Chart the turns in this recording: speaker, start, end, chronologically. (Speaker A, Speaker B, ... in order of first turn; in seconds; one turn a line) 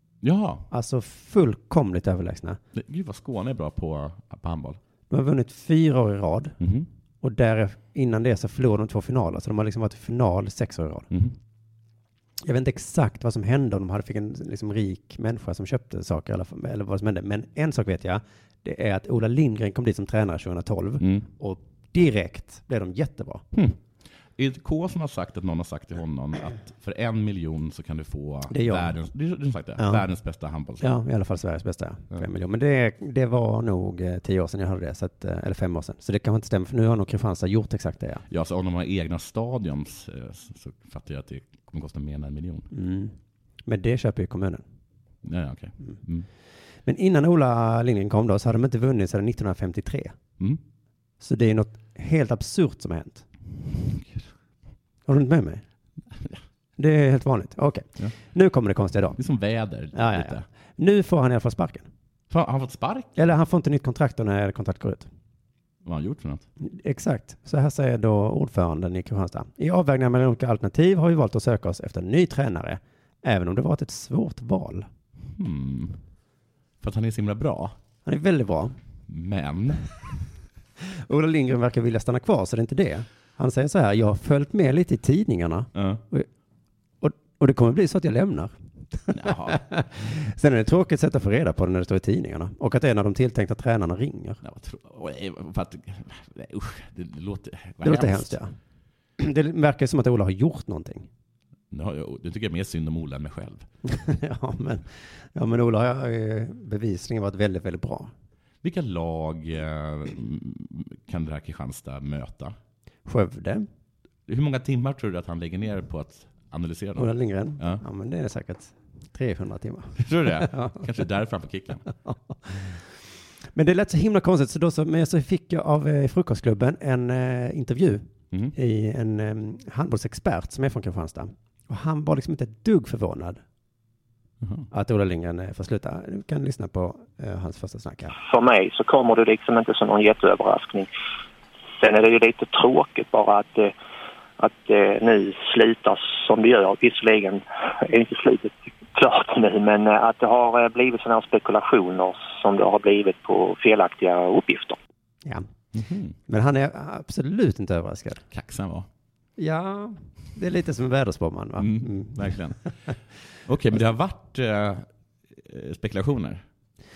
Speaker A: 0.2-0.7
Speaker B: 0.7-2.6
Speaker A: 2.7-4.8
Speaker B: 5.1-6.6
Speaker A: 6.6-6.9
Speaker B: 7.2-11.1
Speaker B: 12.4-23.4
Speaker A: 21.0-21.2
Speaker A: 23.5-23.8
Speaker A: 24.4-30.9
Speaker B: 28.5-29.0
Speaker B: 29.8-30.1
Speaker B: 30.8-38.2
Speaker A: 38.3-42.7
Speaker B: 42.7-44.6
Speaker A: 45.2-46.3
Speaker B: 46.9-50.1
Speaker B: 51.2-53.3
Speaker A: 53.7-54.3
Speaker B: 55.1-55.6
Speaker B: 56.8-59.2
Speaker A: 59.2-60.5
Speaker B: 59.9-61.9
Speaker A: 62.3-63.2
Speaker B: 63.2-65.1
Speaker A: 65.8-66.5
Speaker B: 66.6-74.9
Speaker A: 75.4-76.0
Speaker A: 76.8-77.8
Speaker B: 78.0-78.8
Speaker A: 79.1-79.9
Speaker B: 80.8-86.3
Speaker A: 85.8-86.0
Speaker B: 87.0-94.4
Speaker A: 89.1-89.6
Speaker A: 94.4-98.4
Speaker B: 97.8-98.5
Speaker B: 99.2-101.1
Speaker A: 101.7-103.7
Speaker B: 103.8-108.1
Speaker A: 108.6-112.5
Speaker B: 113.1-113.7
Speaker A: 114.3-117.8
Speaker B: 117.0-120.9
Speaker A: 120.0-121.8
Speaker B: 122.0-122.8
Speaker B: 123.5-133.4
Speaker A: 134.4-134.7
Speaker B: 134.7-138.2
Speaker C: 138.2-140.9
Speaker C: 141.8-143.7
Speaker C: 144.4-154.8
Speaker A: 155.7-156.2
Speaker B: 156.3-158.2
Speaker A: 158.3-158.9
Speaker B: 159.4-162.4
Speaker A: 161.6-162.6
Speaker A: 163.5-166.4